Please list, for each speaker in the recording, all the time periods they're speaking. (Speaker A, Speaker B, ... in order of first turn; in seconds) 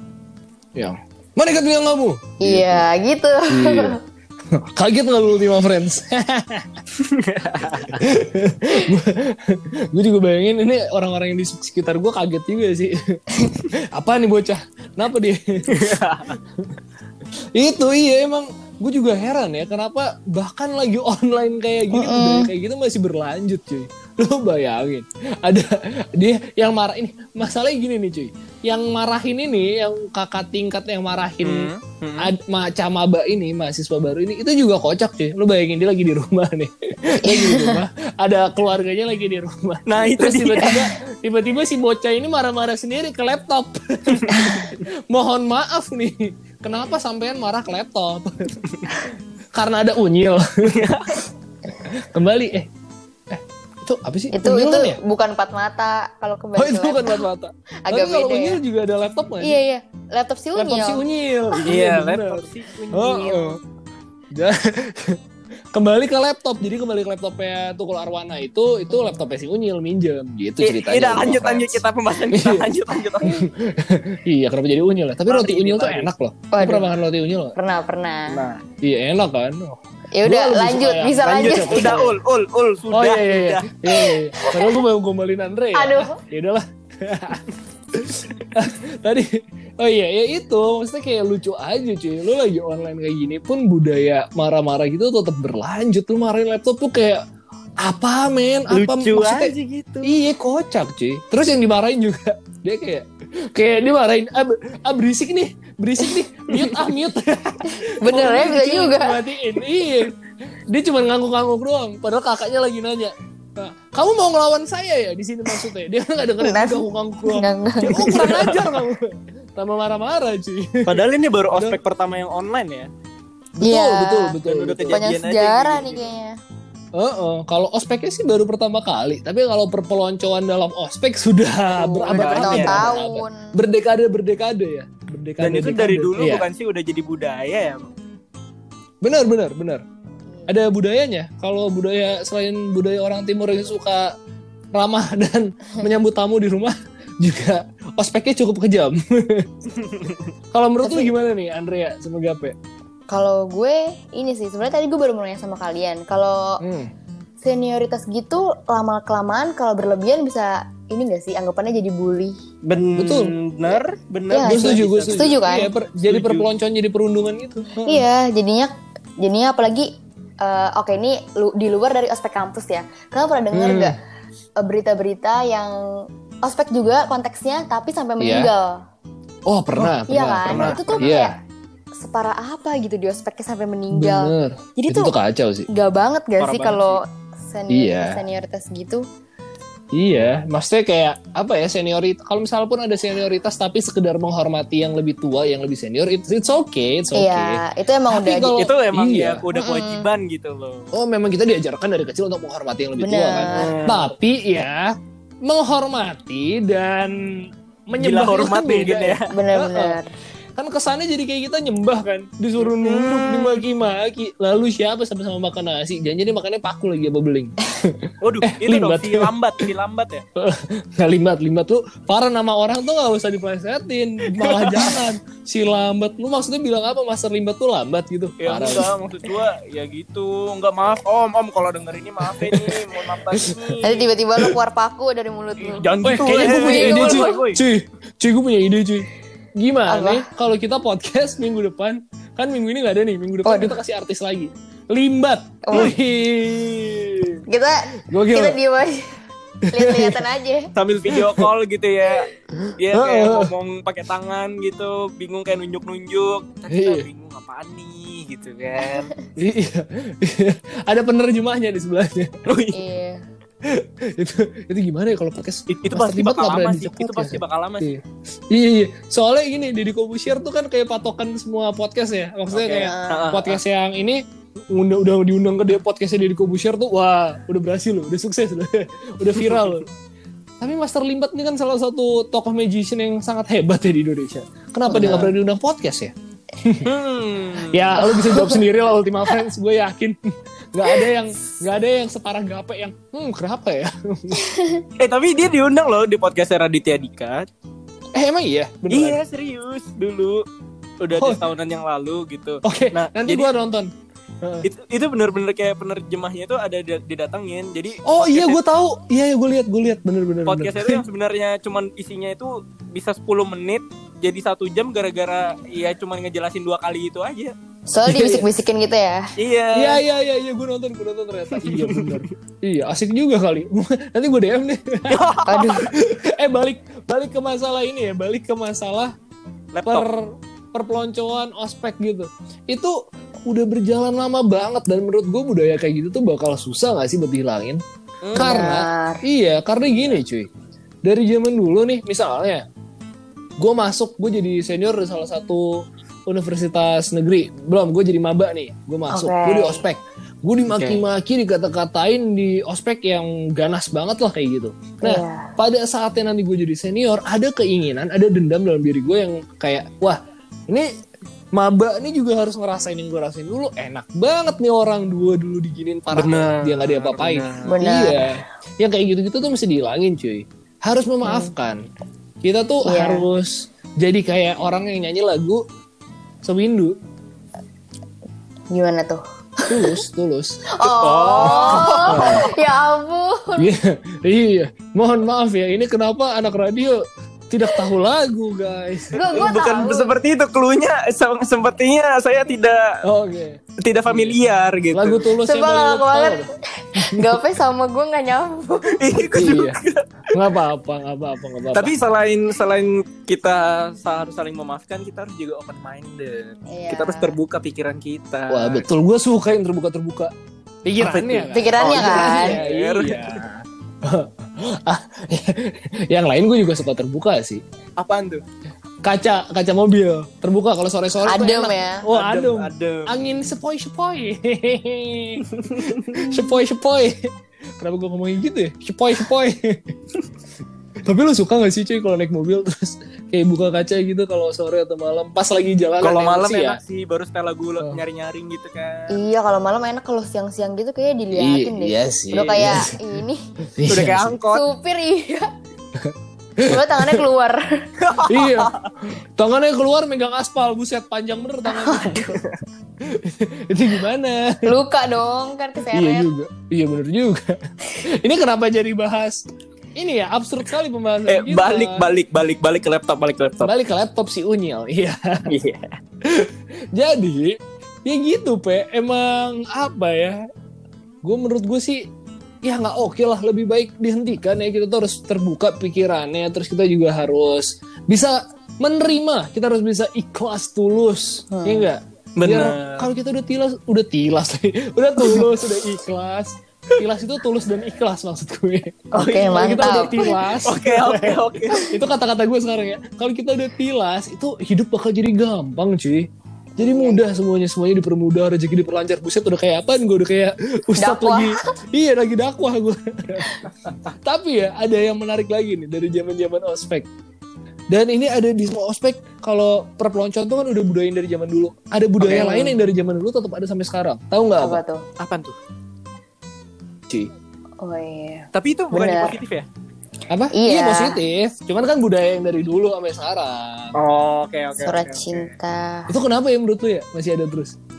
Speaker A: 0.8-2.8, 3.5-4.0, 4.5-6.7, 7.9-13.2, 13.7-16.8, 17.5-48.6, 49.5-50.9, 51.8-52.7, 53.3-55.0, 56.6-59.6, 60.5-63.6, 64.3-65.2, 65.7-72.7, 73.2-77.5, 78.8-82.1, 82.9-97.2, 97.8-121.8, 123.6-125.0, 126.9-136.5, 139.0-139.8, 140.5-144.1, 144.7-149.5, 150.5-152.6, 156.6-156.9, 162.9-163.3, 164.4-168.0, 173.5-173.9, 178.2-178.5, 179.4-181.3, 183.9-185.7, 187.7-188.2, 189.9-199.4, 200.9-210.0, 210.6-219.6, 220.3-228.9, 232.3-233.6, 236.0-247.4, 248.0-248.6, 249.7-250.2, 251.1-251.5, 252.5-253.5, 256.7-257.1, 259.4-262.4, 263.6-279.9, 280.6-286.9, 287.7-290.2, 290.7-294.4, 298.1-299.2, 301.1-301.4, 302.6-303.9, 304.4-304.7, 308.0-311.0, 318.0-318.5, 319.7-329.1, 329.9-337.8, 338.3-340.5, 341.0-342.6, 343.6-360.9, 361.5-371.8, 372.4-375.6, 376.4-376.9, 379.7-380.6, 381.4-382.5, 383.6-389.4, 393.0-394.4, 394.9-397.4, 399.3-401.9, 408.5-410.3, 410.8-417.6, 419.0-429.9, 431.0-436.8, 441.3-442.9, 443.7-444.4, 445.9-447.2, 448.2-452.3, 453.0-454.8, 455.9-462.1, 463.6-465.5, 466.2-470.4, 471.2-472.1, 472.6-507.1, 507.9-514.8, 520.3-523.9, 526.1-527.8
Speaker B: 2.4-4.0, 21.9-22.5, 37.2-37.8, 44.3-44.6, 54.3-57.2, 57.9-58.6, 59.4-61.0, 76.5-76.9, 77.5-78.4, 80.1-82.1, 84.0-84.8, 85.7-86.2, 107.8-109.2, 116.4-118.5, 123.6-124.3, 124.9-126.4, 131.7-133.5, 150.8-151.1, 153.1-156.6, 157.4-162.4, 164.3-165.7, 167.8-173.9, 174.6-178.8, 180.1-181.3, 182.0-185.1, 185.7-189.1, 197.1-198.6, 199.5-200.1, 203.0-203.8, 209.3-210.1, 233.8-237.4, 239.9-240.3, 243.4-243.8, 245.6-245.9, 247.5-249.1, 249.7-250.7, 262.7-263.2, 272.8-273.3, 284.9-285.3, 288.0-288.6, 294.4-294.8, 317.9-319.3, 325.4-325.9, 338.4-339.2, 349.1-349.8, 355.0-355.5, 367.6-368.4, 371.2-371.5, 372.8-373.2, 378.7-380.0, 380.7-383.7, 389.1-390.2, 395.4-399.2, 406.7-407.3, 411.5-412.6, 421.2-422.1, 439.1-443.4, 444.5-445.5, 446.6-447.9, 451.6-452.4, 454.6-456.3, 481.5-481.9, 489.1-490.5, 496.8-497.2, 501.0-501.7, 512.2-512.7, 514.6-515.0, 517.8-519.4, 520.5-521.2, 524.8-526.1
Speaker C: 7.0-8.0, 15.7-16.3, 31.4-32.3, 39.9-40.8, 44.1-44.5, 50.6-51.2, 61.6-63.6, 70.6-73.5, 75.3-76.1, 78.3-78.6, 81.3-83.8, 98.7-100.1, 106.5-106.8, 118.0-118.8, 120.9-122.9, 124.4-126.0, 132.1-133.0, 135.4-137.9, 149.8-150.3, 162.7-166.5, 180.4-181.1, 186.4-187.0, 198.5-200.9, 203.5-204.1, 208.0-209.3, 212.6-213.6, 218.2-220.2, 224.3-225.0, 228.4-234.1, 235.6-237.6, 250.7-259.1, 262.4-262.8, 265.7-267.9, 272.5-273.6, 286.8-288.1, 295.0-297.5, 298.9-300.4, 301.0-303.5, 304.6-308.6, 310.5-317.5, 319.4-320.0, 321.6-322.3, 325.1-325.9, 329.7-330.1, 338.2-338.5, 350.7-351.0, 366.1-367.7, 380.8-382.4, 389.2-393.0, 393.8-395.3, 398.9-400.4, 401.7-408.8, 411.0-413.4, 418.0-418.4, 422.1-423.1, 425.5-426.2, 436.0-439.2, 443.9-444.6, 448.0-448.9, 461.3-463.7, 465.5-465.9, 482.4-483.1, 489.2-492.0, 512.2-512.6, 515.2-515.6, 518.5-519.7, 523.9-525.5